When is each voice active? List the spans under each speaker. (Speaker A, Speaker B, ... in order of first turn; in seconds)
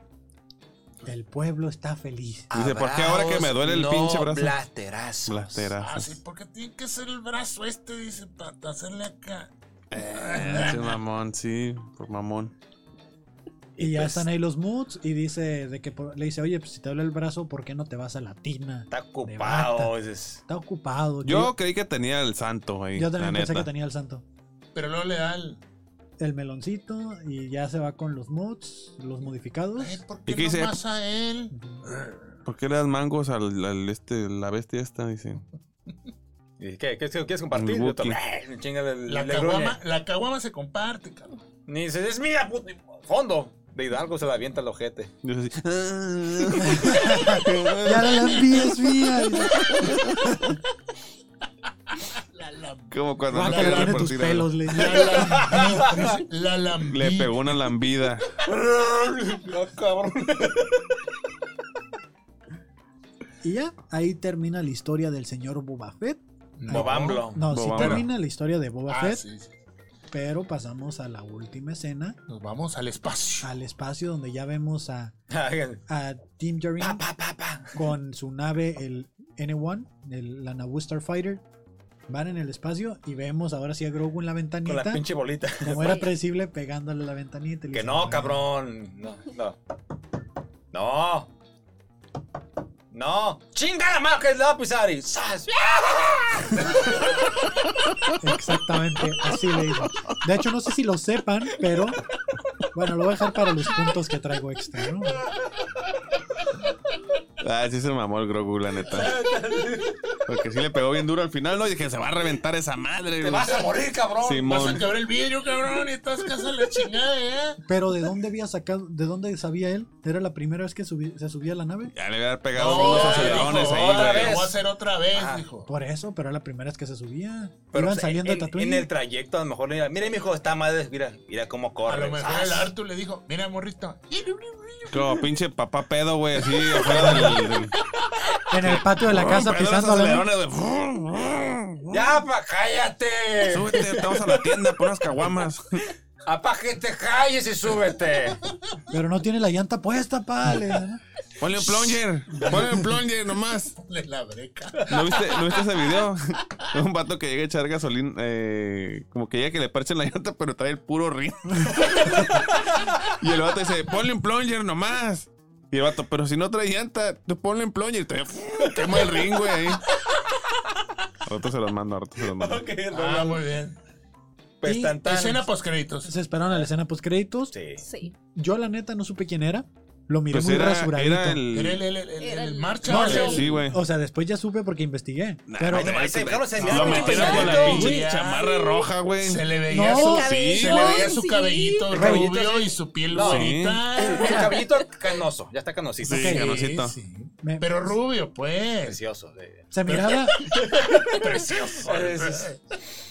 Speaker A: 1.0-2.5, 13.8-19.9, 20.5-21.5, 22.9-24.2, 26.2-30.0, 31.5-31.8, 46.7-50.5, 53.3-56.1, 63.4-69.2, 70.1-72.2, 73.4-75.1, 75.9-77.0, 77.7-81.4, 82.1-85.0, 85.6-88.4, 98.2-102.0, 102.7-105.2, 117.7-121.9, 125.7-128.9, 136.9-137.4, 138.5-140.3, 148.9-151.0, 174.6-175.0, 176.0-177.5, 178.2-181.4, 182.8-186.0, 186.7-188.1, 189.7-190.3, 191.9-192.3, 194.1-194.5, 196.1-196.6, 197.4-197.9, 199.7-200.5
Speaker B: 2.5-5.7, 13.8-14.2, 18.9-20.4, 36.6-39.8, 41.7-45.1, 54.7-56.1, 58.4-60.8, 66.7-67.5, 75.3-75.8, 76.8-77.8, 84.6-86.0, 87.7-89.6, 90.7-91.3, 92.9-97.5, 108.9-110.2, 113.2-114.9, 122.6-124.6, 125.1-125.4, 127.7-132.7, 141.9-144.5, 146.2-148.4, 172.3-173.4, 174.6-175.4, 177.5-177.8, 185.7-187.9, 191.9-196.4, 198.8-202.5
Speaker C: 2.5-4.5, 5.2-6.2, 9.9-12.5, 21.2-23.7, 30.2-30.8, 32.4-35.4, 37.5-38.2, 45.2-48.6, 49.6-50.4, 52.9-54.5, 56.9-58.3, 67.5-68.0, 107.4-109.2, 110.2-113.7, 114.2-114.8, 121.9-124.5, 134.9-137.7, 138.6-142.2, 143.4-145.9, 151.4-153.8, 154.9-169.8, 171.2-172.6, 180.3-181.8, 182.9-183.8, 185.5-191.1, 193.2-193.8, 196.0-196.9
Speaker D: 5.8-11.0, 24.7-25.6, 29.8-32.2, 39.1-41.4, 52.3-54.1, 54.7-57.4, 66.6-68.1, 68.9-69.5, 72.3-73.5, 114.4-117.6, 122.5-125.7, 131.8-135.2, 136.7-137.3, 151.8-153.0, 153.8-155.6, 168.7-169.4, 172.9-173.8, 175.0-176.1, 181.5-183.6, 186.6-194.4, 196.2-199.0, 199.9-202.6
Speaker E: 85.7-86.1, 177.8-178.1, 182.2-183.5, 186.8-187.8, 189.9-192.0, 194.2-194.4